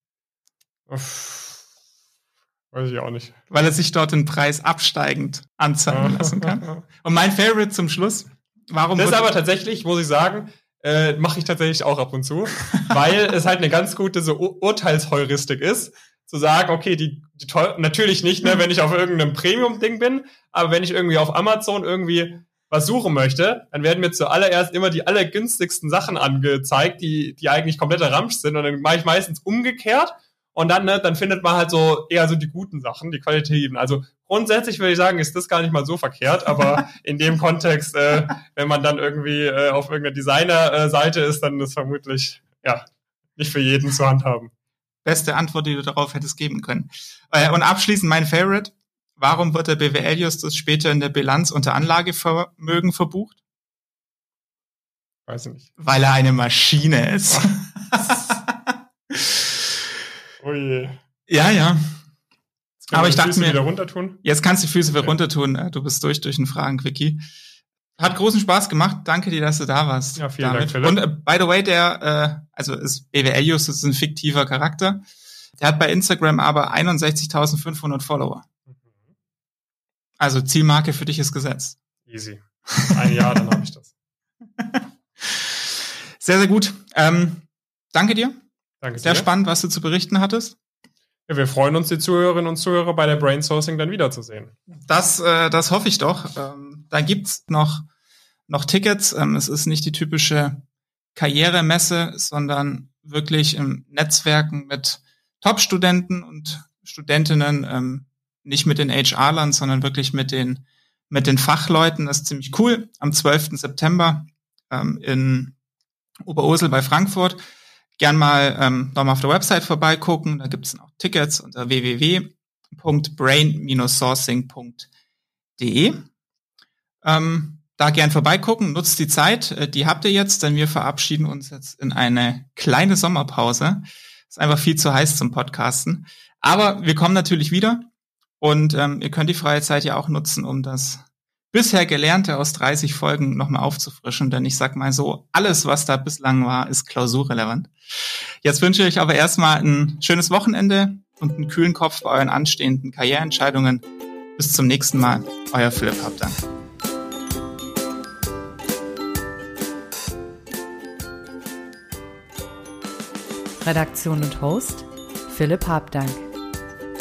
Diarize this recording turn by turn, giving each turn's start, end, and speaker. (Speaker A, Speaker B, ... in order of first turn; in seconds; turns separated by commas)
Speaker A: 0.9-1.6, Speaker A: 2.7-3.4, Speaker B: 3.5-9.3, Speaker A: 5.9-6.8, Speaker A: 9.0-42.8, Speaker A: 43.4-44.5, Speaker B: 45.0-53.4, Speaker A: 55.3-55.7, Speaker B: 55.8-59.4, Speaker A: 57.3-58.3, Speaker A: 60.4-61.0, Speaker B: 61.3-62.0, Speaker A: 62.8-64.2, Speaker B: 62.9-63.6, Speaker B: 64.2-67.2, Speaker B: 68.0-75.0, Speaker A: 70.2-71.0, Speaker B: 75.6-78.4, Speaker B: 80.2-81.8, Speaker A: 82.0-83.9, Speaker B: 82.7-83.4, Speaker B: 84.6-88.4, Speaker A: 88.8-89.3, Speaker B: 89.0-90.6, Speaker A: 91.3-94.5, Speaker B: 94.8-97.9, Speaker B: 98.5-115.5, Speaker B: 116.2-117.4, Speaker B: 118.0-124.9, Speaker B: 125.6-126.0, Speaker B: 127.0-137.9, Speaker B: 138.4-153.8, Speaker B: 154.4-156.4, Speaker C: 163.6-166.3